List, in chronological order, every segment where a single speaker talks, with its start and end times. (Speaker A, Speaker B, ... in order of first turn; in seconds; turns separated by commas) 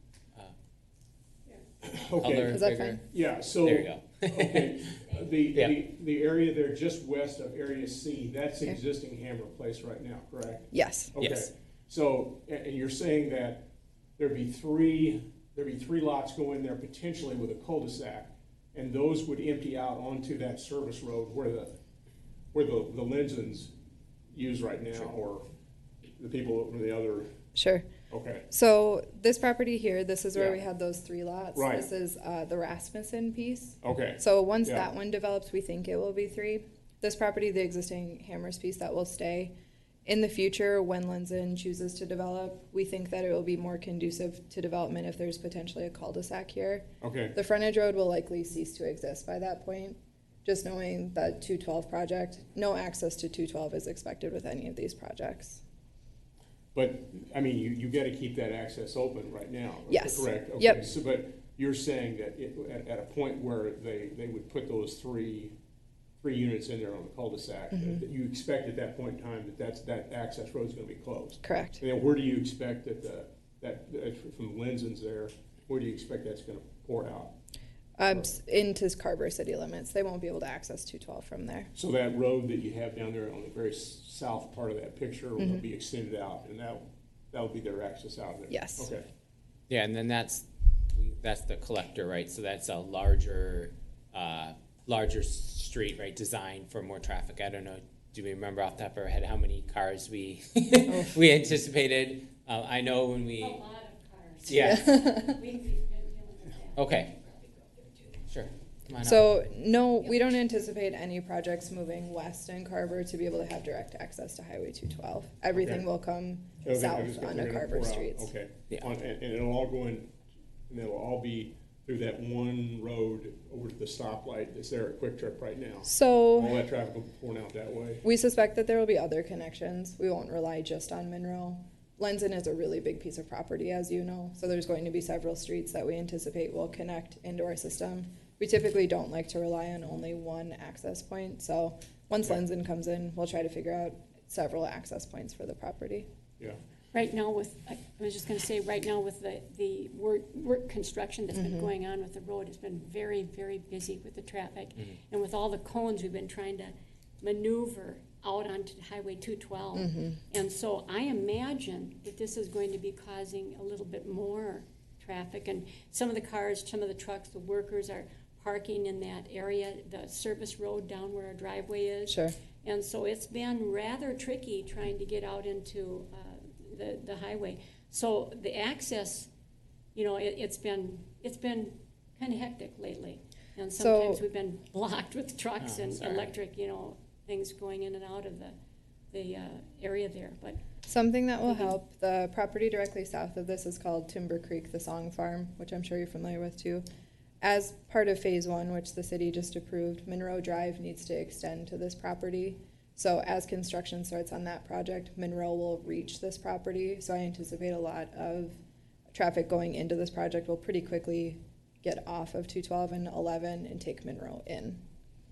Speaker A: 1.8-21.8, Speaker B: 2.2-3.0, Speaker C: 2.5-3.0, Speaker B: 3.6-4.7, Speaker C: 10.7-11.2, Speaker A: 22.5-23.7, Speaker A: 24.3-25.5, Speaker A: 26.2-27.3, Speaker C: 27.6-27.9, Speaker A: 28.1-28.5, Speaker C: 28.5-39.5, Speaker A: 31.6-31.9, Speaker A: 33.8-34.9, Speaker C: 40.1-55.6, Speaker A: 47.0-47.4, Speaker A: 56.8-65.5, Speaker C: 59.9-60.8, Speaker A: 66.2-77.4, Speaker C: 67.7-68.0, Speaker C: 71.4-71.8, Speaker C: 78.0-81.7, Speaker A: 81.8-89.1, Speaker C: 88.5-88.9, Speaker B: 89.7-103.6, Speaker C: 100.9-101.2, Speaker D: 103.4-107.0, Speaker B: 104.5-104.9, Speaker C: 104.5-105.3, Speaker B: 106.8-107.2, Speaker B: 108.3-109.4, Speaker C: 109.0-118.3, Speaker A: 115.5-115.8, Speaker A: 116.6-120.1, Speaker A: 120.7-128.0, Speaker C: 125.9-126.6, Speaker C: 128.0-146.1, Speaker D: 146.9-179.3, Speaker C: 151.3-151.7, Speaker C: 159.8-160.2, Speaker C: 172.1-172.4, Speaker D: 179.9-188.6, Speaker C: 183.8-184.2, Speaker B: 185.6-186.2, Speaker D: 189.1-190.6, Speaker C: 190.9-196.8, Speaker D: 191.5-191.8, Speaker C: 197.4-208.6, Speaker C: 209.1-214.8